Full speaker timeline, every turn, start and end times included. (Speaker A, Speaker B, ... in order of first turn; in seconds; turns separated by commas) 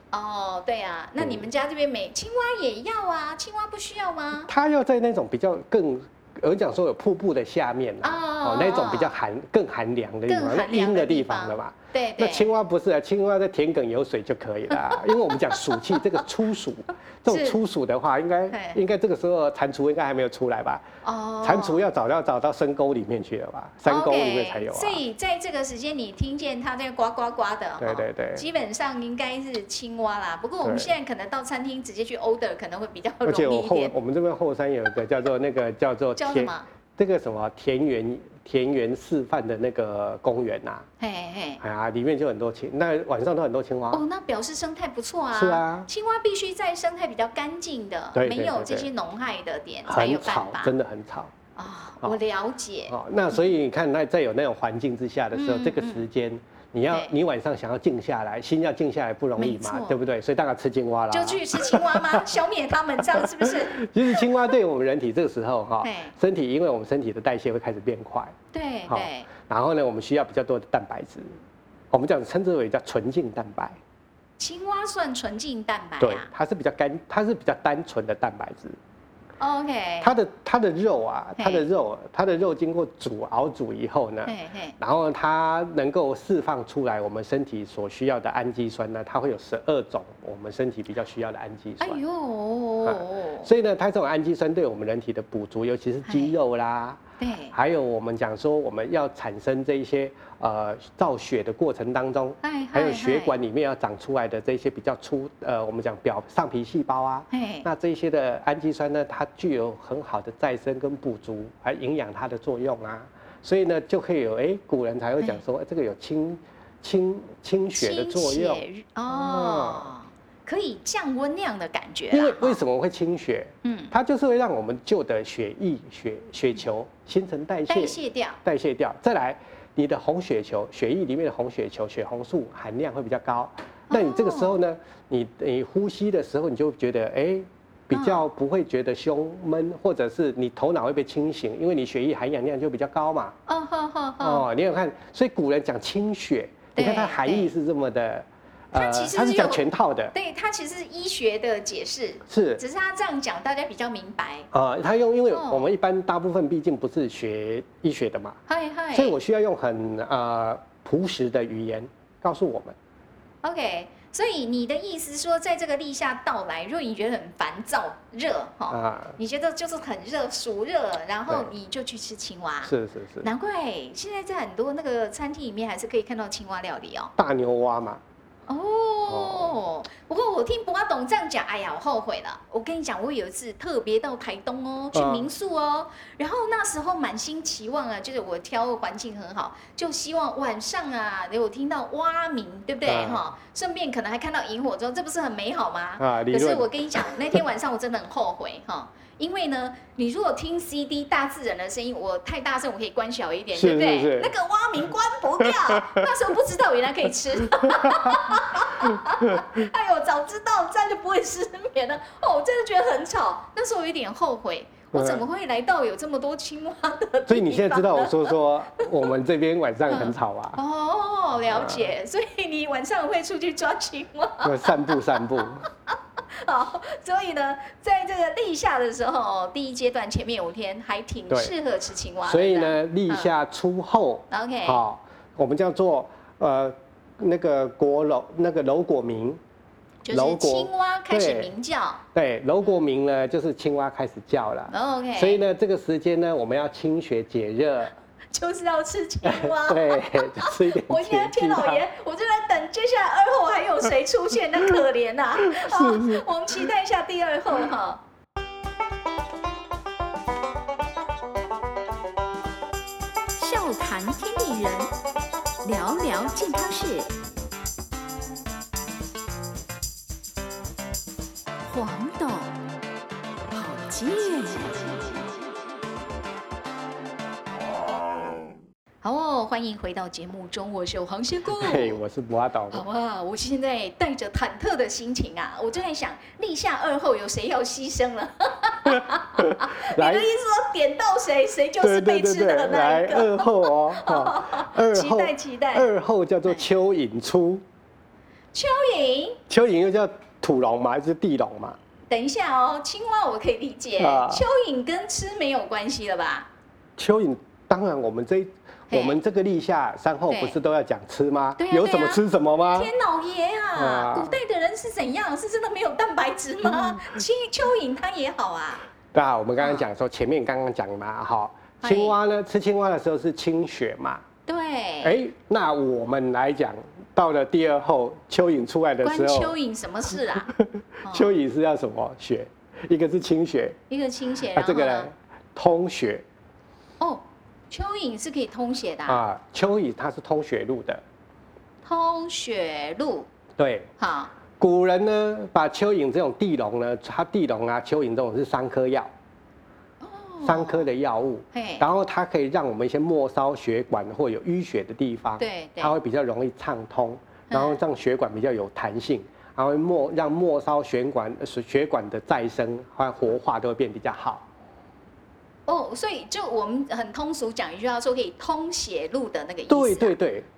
Speaker A: 0.1-4.5, Speaker B: 1.2-1.4, Speaker B: 4.5-20.9, Speaker A: 8.0-9.2, Speaker A: 10.3-12.5, Speaker A: 15.6-16.0, Speaker A: 17.3-17.6, Speaker A: 18.5-18.8, Speaker A: 21.0-21.8, Speaker B: 21.4-25.0, Speaker A: 23.9-33.9, Speaker B: 27.8-28.5, Speaker B: 30.6-30.9, Speaker B: 33.2-40.9, Speaker A: 36.2-36.6, Speaker A: 41.0-41.6, Speaker B: 41.6-44.0, Speaker A: 43.9-50.7, Speaker B: 45.3-45.9, Speaker B: 48.1-48.9, Speaker B: 49.9-51.3, Speaker A: 51.6-53.0, Speaker B: 52.9-62.2, Speaker A: 55.3-56.0, Speaker A: 59.4-60.0, Speaker A: 61.1-64.2, Speaker B: 63.1-68.3, Speaker A: 65.8-66.2, Speaker A: 68.5-69.3, Speaker B: 68.9-71.3, Speaker B: 71.9-73.8, Speaker A: 74.4-76.3, Speaker B: 76.0-78.8, Speaker A: 79.4-80.1, Speaker B: 80.0-92.0, Speaker A: 81.4-81.7, Speaker A: 84.3-84.8, Speaker A: 91.8-93.5, Speaker B: 92.8-97.0, Speaker A: 96.0-96.4, Speaker A: 97.2-97.5, Speaker B: 97.5-119.9, Speaker A: 102.4-103.3, Speaker A: 107.3-107.7, Speaker A: 117.8-122.6, Speaker B: 122.1-143.3, Speaker A: 123.6-123.9, Speaker A: 127.7-128.4, Speaker A: 133.9-134.6, Speaker A: 137.9-138.3, Speaker A: 143.5-144.5, Speaker B: 144.2-150.1, Speaker A: 146.8-147.5, Speaker A: 148.7-154.5, Speaker B: 152.3-152.6, Speaker B: 154.5-158.4, Speaker A: 155.3-155.7, Speaker A: 158.5-159.2, Speaker B: 158.9-162.8, Speaker A: 163.4-177.1, Speaker B: 168.7-169.2, Speaker B: 172.6-173.3, Speaker B: 177.2-178.0, Speaker A: 178.5-218.8, Speaker B: 179.1-179.6, Speaker B: 184.9-185.3, Speaker B: 192.8-193.2, Speaker B: 196.0-197.4, Speaker B: 203.5-204.3, Speaker B: 205.4-206.1, Speaker B: 207.4-209.5, Speaker B: 214.9-215.2, Speaker B: 217.3-220.6, Speaker A: 219.9-233.3, Speaker B: 221.4-221.9, Speaker B: 224.4-225.7, Speaker B: 232.2-239.4, Speaker A: 234.3-234.8, Speaker A: 240.1-242.0, Speaker B: 240.1-241.5, Speaker B: 242.1-247.9, Speaker A: 244.7-245.4, Speaker A: 248.3-258.0, Speaker B: 249.2-251.8, Speaker B: 255.5-256.2, Speaker A: 263.4-264.9, Speaker A: 265.6-267.1, Speaker A: 271.6-272.6, Speaker A: 273.5-275.3, Speaker A: 279.0-282.0, Speaker B: 281.5-282.8, Speaker A: 282.7-295.9, Speaker B: 289.4-290.3, Speaker B: 291.8-297.6, Speaker A: 298.5-299.4, Speaker B: 299.5-301.8, Speaker A: 302.1-306.5, Speaker B: 304.0-304.5, Speaker B: 307.0-312.9, Speaker A: 308.9-309.2, Speaker A: 310.3-310.6, Speaker A: 311.6-312.2, Speaker A: 312.7-318.9, Speaker B: 313.8-314.4, Speaker B: 316.8-317.2, Speaker B: 319.1-324.2, Speaker A: 319.6-319.9, Speaker A: 321.8-322.2, Speaker A: 324.5-325.2, Speaker B: 325.0-329.6, Speaker A: 329.0-330.5, Speaker B: 330.5-333.8, Speaker A: 331.0-331.3, Speaker A: 333.9-335.1, Speaker B: 334.5-336.2, Speaker A: 337.0-339.2, Speaker B: 339.1-341.0, Speaker A: 341.9-343.3, Speaker B: 343.6-343.9, Speaker A: 344.0-344.3, Speaker B: 344.6-349.1, Speaker A: 350.0-350.9, Speaker B: 350.4-364.5, Speaker A: 351.5-351.9, Speaker A: 355.4-356.0, Speaker A: 357.5-357.8, Speaker A: 365.7-370.1, Speaker B: 369.7-370.5